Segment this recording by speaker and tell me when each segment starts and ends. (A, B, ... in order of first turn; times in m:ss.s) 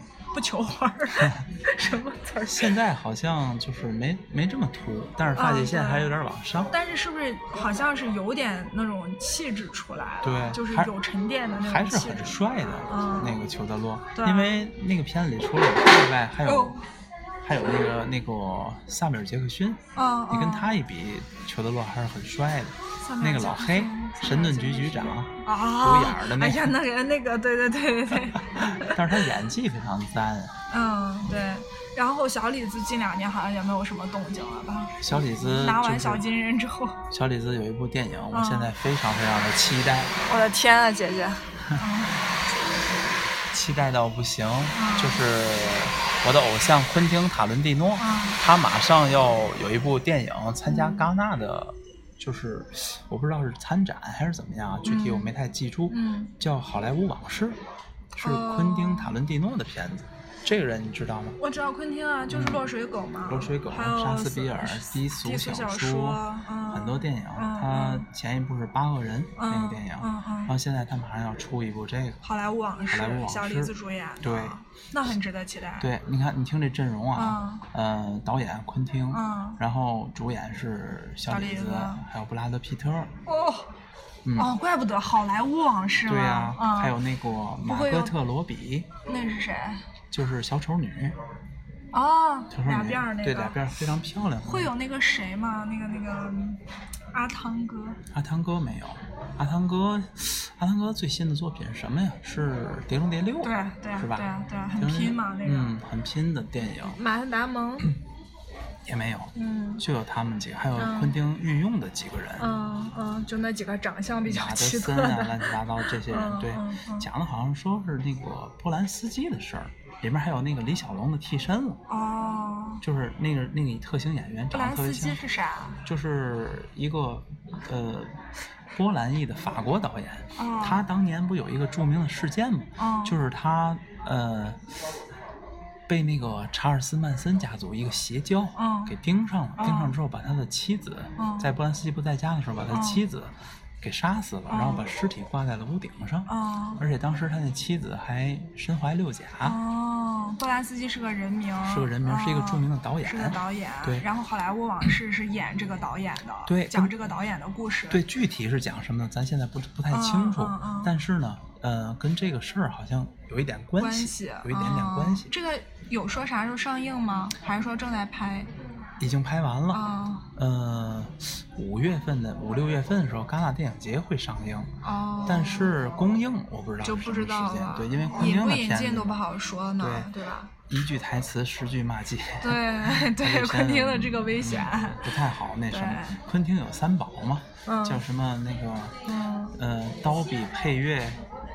0:00.3-0:02.8 A
0:02.5-0:06.7 B
0:05.4-0:06.1 A
0:06.7-0:13.4 A
0:10.2-0:10.9 B
0:11.6-0:16.8 B
0:14.2-0:14.6 A
0:16.5-0:16.8 A
0:17.4-0:26.8 B
0:20.0-0:20.7 A
0:23.0-0:29.2 A
0:28.6-0:30.6 B
0:30.7-0:37.0 A
0:35.0-0:36.2 B
0:37.1-0:40.2 B
0:38.3-0:38.7 A
0:40.3-0:42.3 A
0:43.5-0:57.6 B
0:44.7-0:45.2 A
0:48.0-0:48.4 A
0:50.7-0:51.1 A
0:54.8-0:55.3 A
0:55.9-0:56.3 A
0:58.2-1:01.4 B
0:58.2-0:59.2 A
1:01.4-1:08.1 A
1:02.3-1:02.7 B
1:03.3-1:12.2 B
1:09.4-1:10.5 A
1:12.2-1:15.9 A
1:12.9-1:14.6 B
1:15.8-1:23.1 B
1:17.2-1:17.6 A
1:19.1-1:19.6 A
1:21.3-1:22.0 A
1:23.3-1:23.7 A
1:24.2-1:24.5 B
1:24.4-1:27.0 A
1:26.1-1:28.9 B
1:27.6-1:28.2 A
1:29.1-1:29.8 A
1:30.1-1:31.2 B
1:31.9-1:33.6 A
1:32.5-1:34.7 B
1:34.4-1:36.6 A
1:37.1-1:38.0 A
1:38.1-1:47.0 B
1:43.4-1:45.7 A
1:46.8-1:47.9 A
1:48.8-1:52.5 B
1:49.4-1:49.8 A
1:50.8-1:51.2 A
1:52.4-1:57.1 A
1:54.2-2:01.8 B
2:01.9-2:02.8 A
2:02.8-2:05.2 B
2:04.5-2:05.8 A
2:05.8-2:08.2 B
2:08.7-2:14.6 B
2:10.4-2:10.8 A
2:12.8-2:13.2 A
2:15.9-2:29.6 B
2:18.6-2:19.0 A
2:19.6-2:19.9 A
2:21.2-2:21.5 A
2:22.7-2:23.0 A
2:24.5-2:24.9 A
2:26.3-2:26.8 A
2:29.4-2:38.0 A
2:31.6-2:34.1 B
2:36.5-2:36.9 B
2:37.9-2:45.3 B
2:39.9-2:40.9 A
2:43.8-2:48.5 A
2:49.0-2:49.8 B
2:49.7-2:50.3 A
2:50.4-2:54.7 B
2:54.8-2:55.8 A
2:55.2-2:59.2 B
2:56.8-3:00.5 A
2:59.8-3:00.1 B
3:00.7-3:09.0 B
3:02.4-3:05.1 A
3:05.7-3:06.2 A
3:07.7-3:08.0 A
3:09.1-3:09.6 A
3:09.6-3:11.2 B